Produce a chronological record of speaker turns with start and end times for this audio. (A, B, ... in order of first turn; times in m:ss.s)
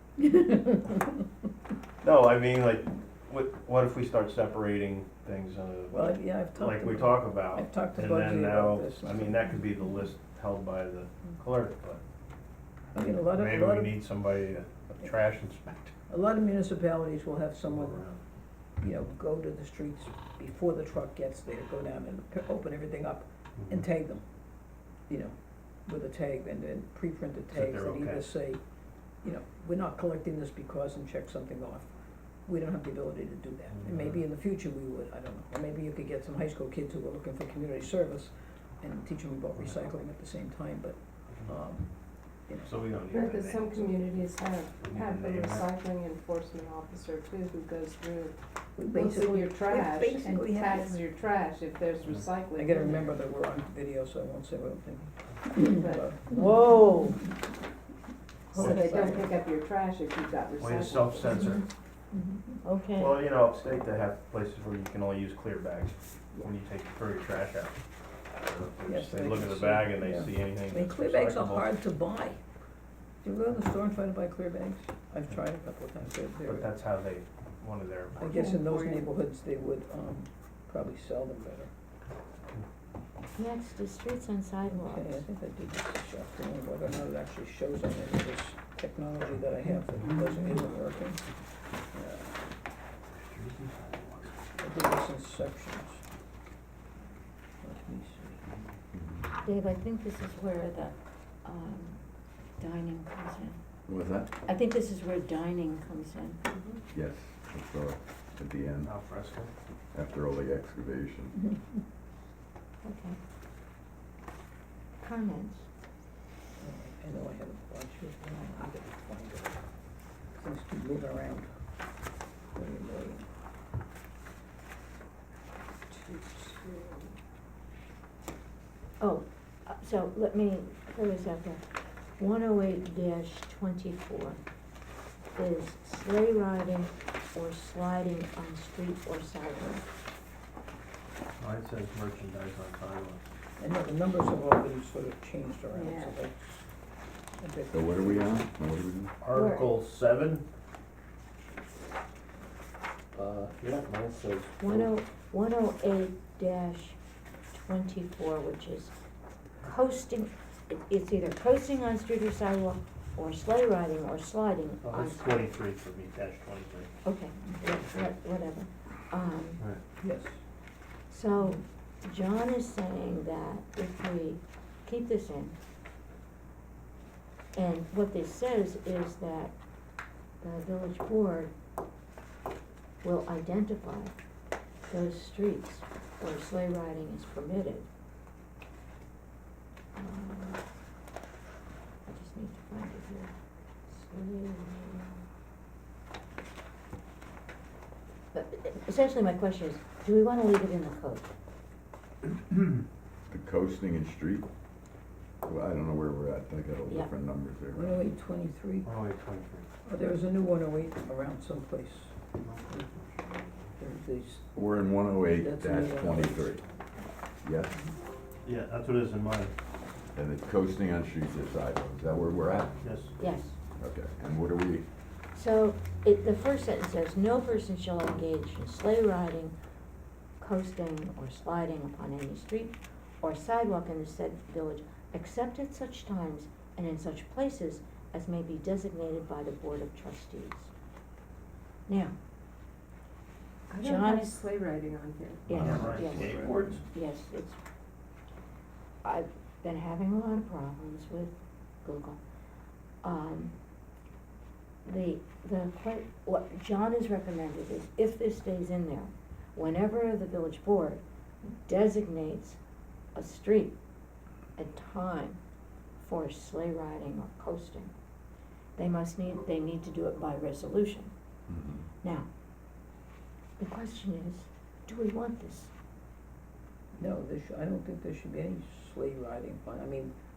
0:02.0-0:12.0 A
0:05.9-0:09.5 B
0:12.9-0:14.0 B
0:13.3-0:16.0 A
0:16.1-0:18.0 B
0:17.7-0:18.2 A
0:18.8-0:24.2 B
0:25.1-0:28.6 B
0:27.5-0:28.3 A
0:29.2-0:31.9 B
0:32.4-0:42.7 B
0:33.7-0:34.2 A
0:42.6-0:44.0 A
0:43.1-0:53.2 C
0:44.7-0:45.7 A
0:48.8-0:51.0 B
0:52.6-0:57.2 B
0:55.5-0:56.5 C
0:56.3-0:57.2 D
0:58.5-0:59.4 B
0:58.6-0:58.8 A
0:58.6-1:01.6 C
1:00.6-1:01.7 A
1:02.1-1:02.6 B
1:02.6-1:03.2 D
1:03.0-1:07.8 A
1:08.3-1:11.7 A
1:08.9-1:12.4 B
1:13.2-1:16.8 B
1:16.4-1:18.2 A
1:18.2-1:21.7 B
1:18.3-1:19.1 C
1:23.4-1:25.2 D
1:24.7-1:31.3 B
1:31.9-1:32.5 B
1:33.2-1:34.3 A
1:34.6-1:36.0 B
1:37.6-1:38.5 B
1:38.9-1:39.3 E
1:39.4-1:42.0 D
1:42.6-1:43.6 D
1:43.9-1:44.3 E
1:44.4-1:46.4 D
1:46.5-1:46.8 C
1:46.9-1:48.9 E
1:48.8-1:49.5 A
1:49.9-1:51.4 E
1:52.8-1:53.2 D
1:55.0-1:55.7 D
1:56.6-1:59.6 B
2:00.4-2:01.5 B
2:02.5-2:03.3 B
2:05.9-2:07.1 C
2:09.0-2:11.6 D
2:12.2-2:14.4 D
2:15.3-2:19.8 D
2:21.4-2:23.2 A
2:23.6-2:26.6 B
2:25.7-2:26.2 C
2:27.4-2:28.4 B
2:27.7-2:29.1 E
2:29.2-2:30.4 A
2:29.3-2:29.8 D
2:33.2-2:34.9 A
2:34.6-2:37.0 D
2:37.5-2:38.9 D
2:39.6-2:45.3 D
2:44.8-2:46.9 A
2:47.0-2:49.6 D
2:47.6-2:48.1 A
2:50.0-2:50.4 B
2:51.1-2:55.6 D
2:57.6-2:59.6 D
3:00.4-3:01.5 D
3:03.0-3:04.2 D
3:04.9-3:07.9 D
3:10.0-3:10.6 D
3:12.0-3:13.3 D
3:13.9-3:15.2 D
3:18.3-3:21.3 D
3:23.3-3:24.5 E
3:25.4-3:27.8 E
3:27.7-3:28.9 B
3:28.8-3:29.7 A
3:29.8-3:32.1 B
3:32.4-3:33.6 A
3:33.8-3:34.5 B
3:34.5-3:36.6 E
3:35.3-3:36.4 B
3:37.4-3:37.7 E
3:38.4-3:39.5 A
3:40.1-3:42.8 E
3:42.8-3:43.1 A
3:43.2-3:43.6 D
3:43.8-3:44.9 E
3:45.3-3:49.6 D
3:50.4-4:00.7 D
4:01.9-4:02.2 D
4:03.7-4:06.0 C
4:03.8-4:04.4 D
4:05.5-4:07.6 D
4:05.5-4:06.5 E
4:05.5-4:06.8 A
4:09.0-4:12.2 D
4:13.0-4:13.5 D
4:14.8-4:22.6 D
4:23.2-4:23.8 D
4:24.6-4:25.4 D
4:26.0-4:27.9 D
4:28.8-4:31.1 D
4:31.5-4:31.8 E
4:32.0-4:32.3 D
4:33.6-4:35.7 D
4:37.0-4:40.1 B